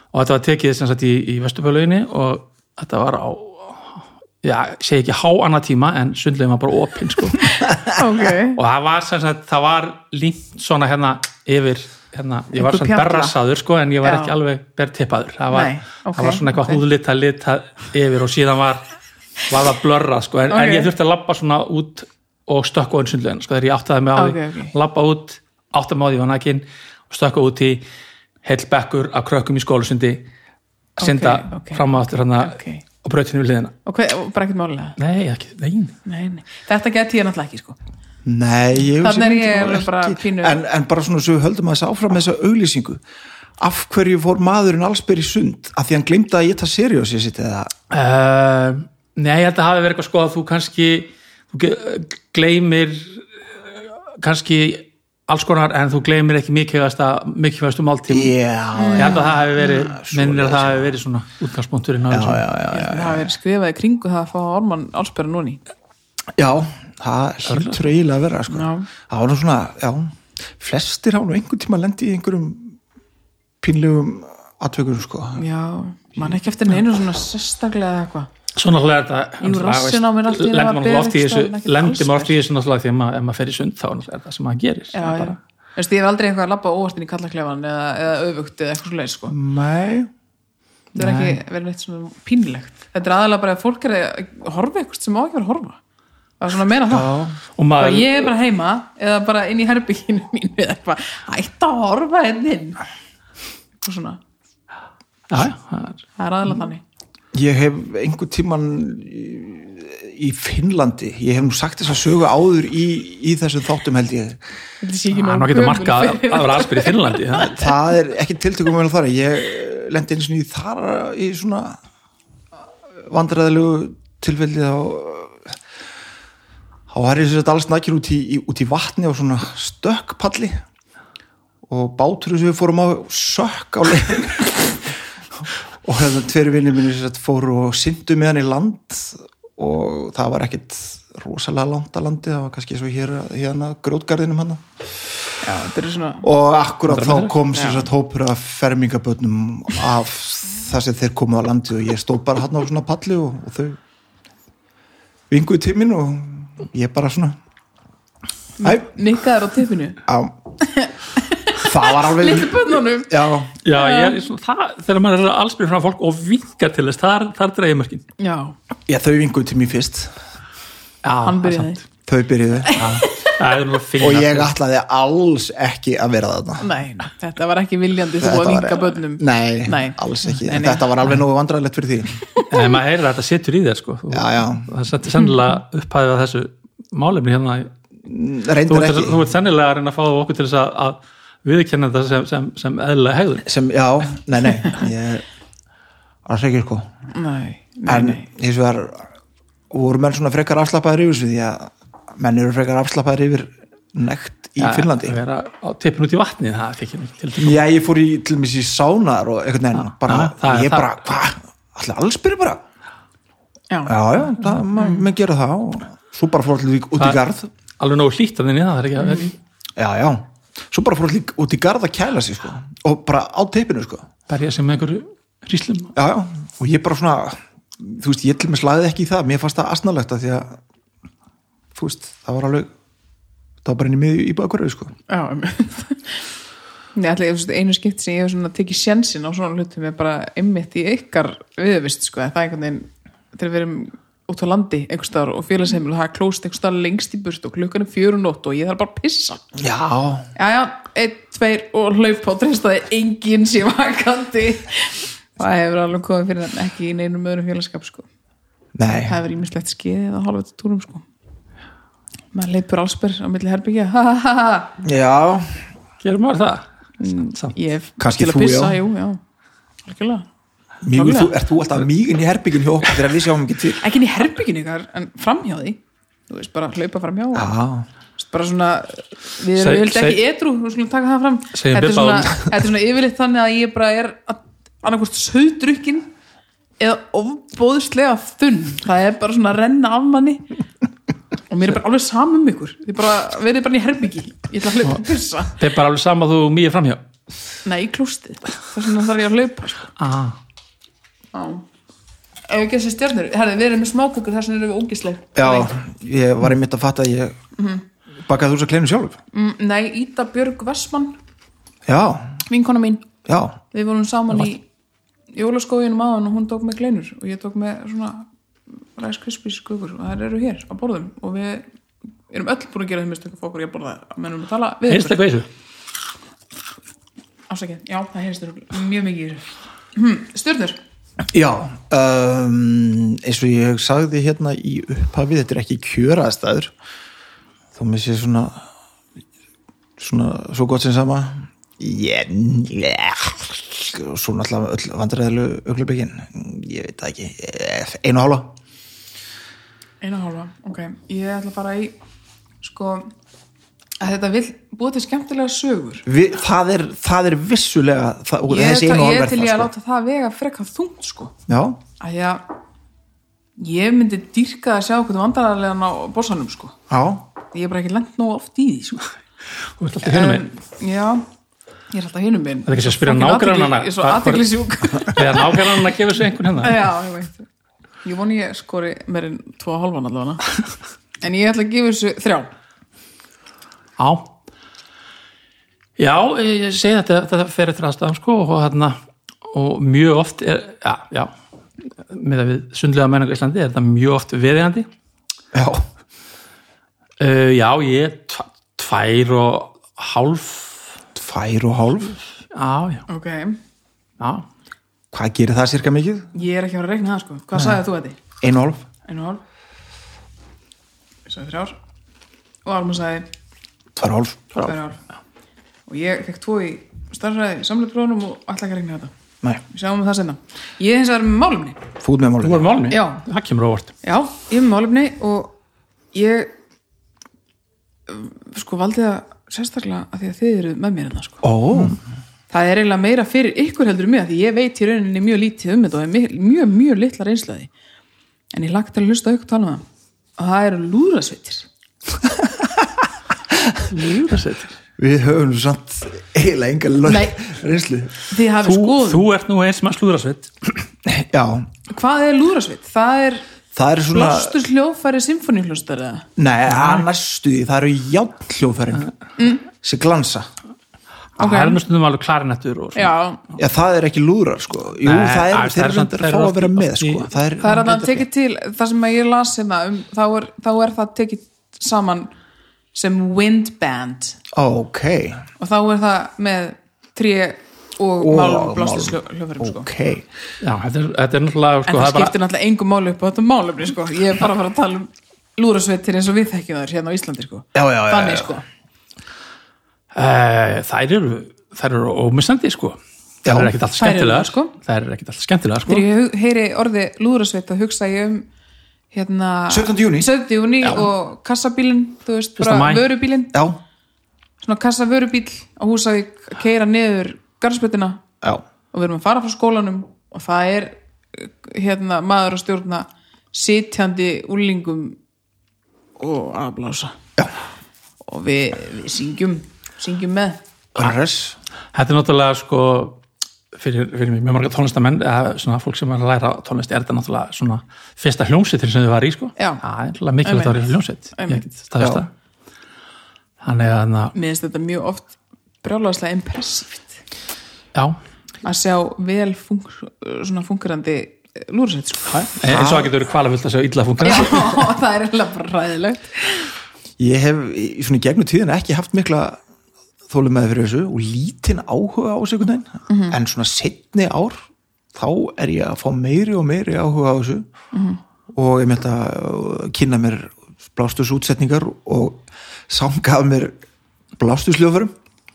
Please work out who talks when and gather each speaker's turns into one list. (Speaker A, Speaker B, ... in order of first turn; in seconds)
Speaker A: 0.1-7.8, 8.5-18.8, 19.5-27.8, 28.4-30.2, 31.0-33.7, 35.0-35.9, 47.9-58.3, 59.0-62.4, 67.5-67.8, 78.5-85.4, 90.9-91.4, 97.5-98.3, 105.3-106.0, 115.1-117.6, 146.9-147.4, 163.6-168.0, 171.0-171.8, 172.7-174.5, 182.5-187.7, 188.7-193.4, 204.6-207.6, 209.8-211.0, 217.8-219.3, 224.3-225.9, 266.0-266.6, 279.6-280.2, 281.5-282.5, 295.5-297.0, 300.0-300.4, 324.9-325.5, 369.8-370.4, 372.7-376.9, 384.0-384.3, 386.0-391.3, 392.0-394.9, 397.2-400.9, 402.5-403.0, 404.2-404.5, 422.4-423.9, 443.9-444.7, 448.6-450.8, 456.7-457.0, 461.4-463.1, 465.0-467.3, 480.6-482.3, 490.1-496.1, 502.6-503.1, 521.9-523.2, 523.7-532.3, 533.6-534.3, 542.3-544.9
Speaker B: 7.9-8.6, 12.5-13.4, 14.0-14.3, 15.5-16.8, 20.5-20.9, 24.1-24.7, 31.0-32.8, 33.8-35.0, 36.0-37.8, 39.0-40.5, 58.8-59.4, 62.7-65.6, 68.5-68.9, 75.3-78.3, 79.4-82.4, 84.9-89.3, 91.0-95.8, 96.4-97.1, 97.8-102.8, 103.8-104.2, 106.2-106.8, 114.8-117.7, 145.4-146.3, 147.5-147.8, 158.6-160.0, 160.6-164.2, 168.2-168.5, 171.2-171.8, 172.6-173.3, 176.6-180.9, 197.1-198.2, 213.7-214.0, 214.7-215.1, 219.0-219.3, 235.1-236.2, 236.9-249.4, 250.3-258.1, 258.9-261.1, 262.3-264.8, 267.0-269.2, 269.8-270.2, 270.9-271.4, 273.8-277.5, 278.1-286.1, 286.8-290.4, 291.5-295.6, 297.6-299.9, 301.3-301.6, 302.5-305.7, 307.6-307.8, 309.3-311.2, 312.5-313.1, 313.7-314.6, 315.3-318.3, 318.9-321.6, 322.3-325.2, 327.5-330.8, 350.0-351.9, 352.6-353.1, 354.0-356.1, 358.5-361.3, 362.0-362.4, 363.6-366.8, 367.5-369.1, 370.0-371.2, 371.9-375.8, 376.6-377.4, 378.0-380.4, 381.2-382.5, 403.1-403.6, 406.3-408.2, 409.0-409.4, 411.3-411.8, 412.6-413.3, 414.6-415.0, 415.9-419.1, 419.7-421.8, 422.9-423.2, 424.0-425.6, 426.1-426.5, 428.1-431.4, 432.5-437.7, 438.5-439.8, 440.4-441.7, 447.1-447.4, 448.3-449.3, 451.9-453.4, 454.1-456.3, 459.4-459.7, 461.4-461.8, 462.9-463.4, 467.6-472.3, 472.9-474.4, 475.6-479.9, 481.9-488.6, 494.0-494.7, 495.9-498.4, 499.1-503.5, 504.6-508.2, 508.9-515.2, 516.2-517.2, 518.2-520.6, 529.6-529.8, 530.4-531.6, 534.3-537.2, 538.6-542.4, 544.2-546.7, 553.1-553.4, 557.9-558.2
Speaker C: 38.2-43.0, 43.6-47.7, 58.1-61.0, 62.1-63.3, 66.4-72.8, 73.6-75.4, 89.3-90.1, 96.9-97.4, 107.3-114.4, 117.4-121.8, 123.1-125.5, 126.9-130.6, 131.7-144.7, 146.2-153.8, 155.3-157.4, 160.1-160.3, 161.6-163.5, 168.9-170.1, 172.1-172.9, 174.0-176.7, 178.2-182.2, 184.1-184.7, 188.0-189.2, 193.4-195.2, 196.2-196.9, 197.9-199.1, 199.7-205.2, 207.4-212.6, 213.8-217.5, 219.8-224.1, 225.9-230.6, 231.7-232.7, 233.6-234.9, 249.5-250.3, 258.8-259.2, 264.8-265.6, 268.0-268.8, 270.8-273.8, 277.3-277.9, 305.3-307.4, 308.2-309.2, 311.9-312.4, 313.2-313.6, 331.3-336.7, 337.7-338.6, 340.0-348.6, 356.1-359.7, 361.5-361.8, 366.9-367.2, 395.5-395.8, 401.1-402.2, 405.1-406.3, 408.4-408.8, 413.9-414.5, 422.0-422.7, 431.4-432.0, 442.6-442.8, 443.5-443.8, 445.0-448.2, 451.0-451.7, 453.7-454.5, 456.4-459.1, 459.7-460.5, 463.6-468.2, 474.5-475.4, 478.2-480.2, 487.7-488.5, 493.4-493.7, 499.7-500.3, 500.8-501.1, 503.5-503.8, 520.9-521.6, 532.0-532.2, 542.6-543.1, 547.2-549.6, 550.3-554.6, 555.1-557.7, 558.5-563.8, 564.4-565.1